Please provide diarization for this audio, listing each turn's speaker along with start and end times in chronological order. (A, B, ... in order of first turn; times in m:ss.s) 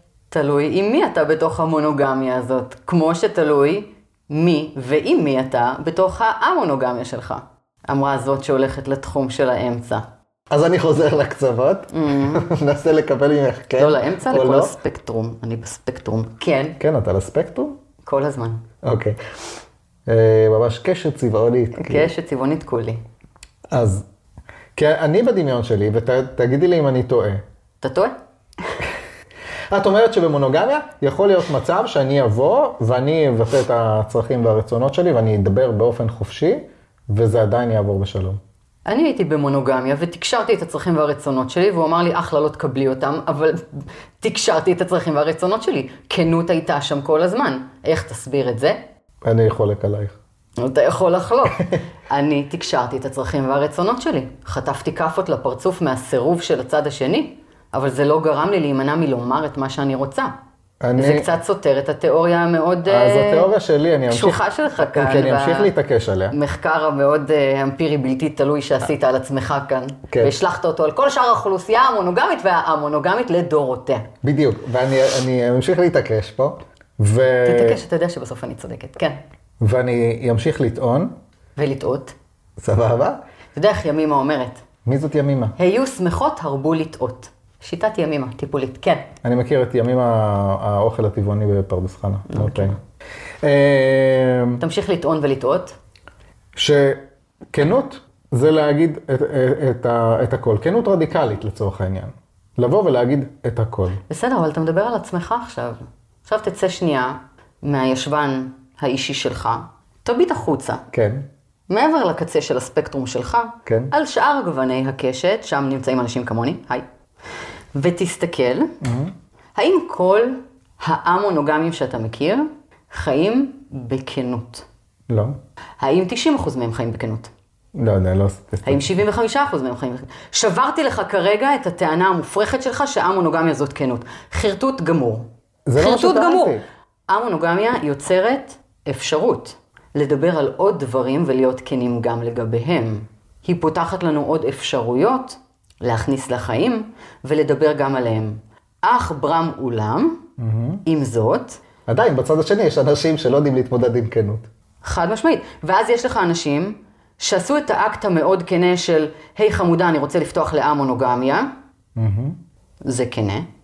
0:00.3-0:10.0 A
0:10.5-0:14.7 B
0:11.9-0:12.5 A
0:13.8-0:16.8 A
0:16.8-0:17.8 B
0:18.0-0:18.6 A
0:18.8-0:19.2 B
0:20.0-0:22.1 B
0:21.7-0:23.0 A
0:23.7-0:24.0 B
0:24.7-0:27.4 B
0:27.8-0:28.1 A
0:29.7-0:38.4 B
0:38.8-0:43.6 A
0:44.2-0:48.8 A
0:49.2-0:50.1 B
0:50.6-1:00.3 A
1:00.8-1:01.3 B
1:01.0-1:03.5 A
1:02.8-1:06.4 B
1:04.1-1:05.7 A
1:06.3-1:14.0 A
1:14.2-1:17.8 B
1:17.4-1:19.2 A
1:19.6-1:21.1 B
1:21.6-1:22.1 A
1:22.6-1:23.2 B
1:23.5-1:24.6 A
1:24.8-1:25.5 B
1:25.6-1:29.1 A
1:29.2-1:32.8 B
1:32.3-1:32.8 A
1:33.4-1:34.6 B
1:34.6-1:35.8 A
1:36.6-1:44.0 B
1:44.1-1:50.8 A
1:50.9-1:51.2 B
1:51.7-1:56.8 A
1:53.6-1:53.9 B
1:57.8-1:58.7 A
1:58.8-1:59.1 B
1:59.5-2:04.6 A
2:05.1-2:05.4 B
2:05.8-2:07.3 A
2:07.8-2:08.9 B
2:08.6-2:30.2 A
2:15.6-2:16.6 B
2:30.4-2:30.8 B
2:30.8-2:31.6 A
2:31.9-2:34.5 B
2:34.8-2:41.5 A
2:42.0-2:42.4 B
2:42.8-2:43.4 A